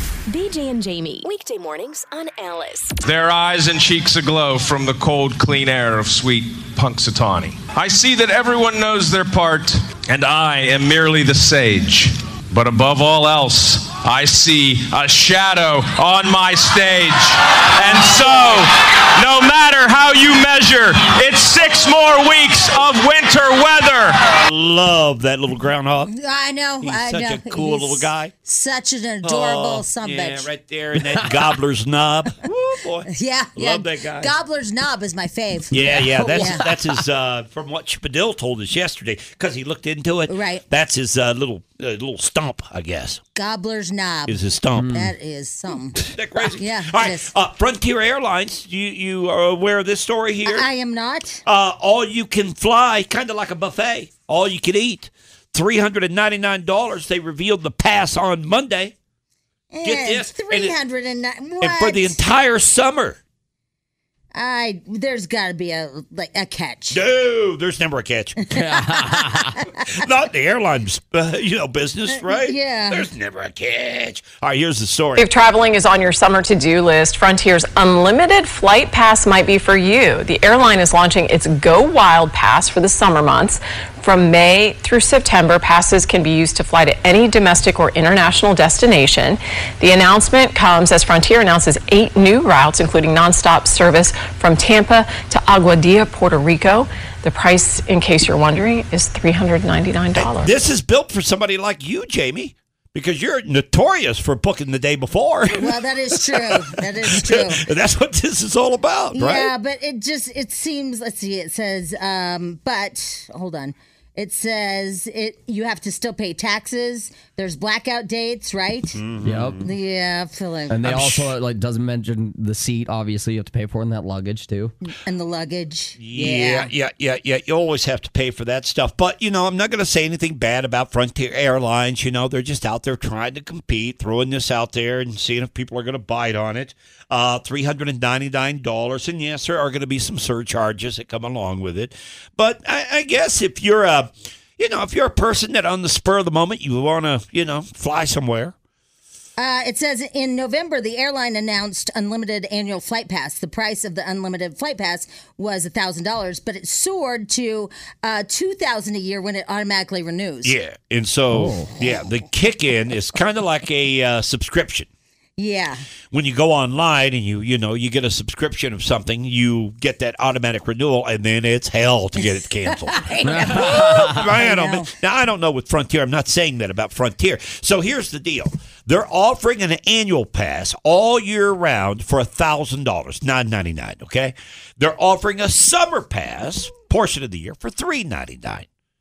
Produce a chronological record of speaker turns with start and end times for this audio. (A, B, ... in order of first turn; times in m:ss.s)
0:00.3-0:03.0 A
0:03.0-0:24.3 B
0:24.4-0:26.1 C
0:26.1-0:30.5 D
0:26.8-0:28.3 C
0:29.2-0:34.3 C
0:33.1-0:36.7 D
0:35.7-0:43.2 C
0:40.3-0:40.6 D
0:43.4-0:44.4 D
0:44.3-0:45.0 C
0:44.8-0:45.1 E
0:44.9-0:47.3 D
0:46.0-0:50.7 C
0:50.5-0:51.4 D
0:51.5-0:59.0 C
0:59.7-1:02.2 D
0:59.8-1:00.8 C
1:01.6-1:03.2 C
1:04.3-1:07.0 D
1:06.9-1:08.6 C
1:08.5-1:09.8 D
1:08.5-1:09.6 E
1:09.9-1:15.3 C
1:12.1-1:13.1 D
1:15.2-1:40.6 F
1:40.2-1:49.5 C
1:45.5-1:47.6 D
1:49.1-1:59.0 D
1:59.0-1:59.7 C
1:59.2-1:59.7 E
1:59.6-2:00.8 D
2:00.7-2:04.7 E
2:00.9-2:01.3 C
2:05.0-2:06.7 D
2:06.0-2:28.5 C
2:29.4-2:40.6 D
2:40.4-2:44.9 C
2:41.3-2:41.8 E
2:45.4-2:45.8 D
2:46.1-3:08.7 C
2:52.2-2:54.9 D
2:53.2-2:54.2 E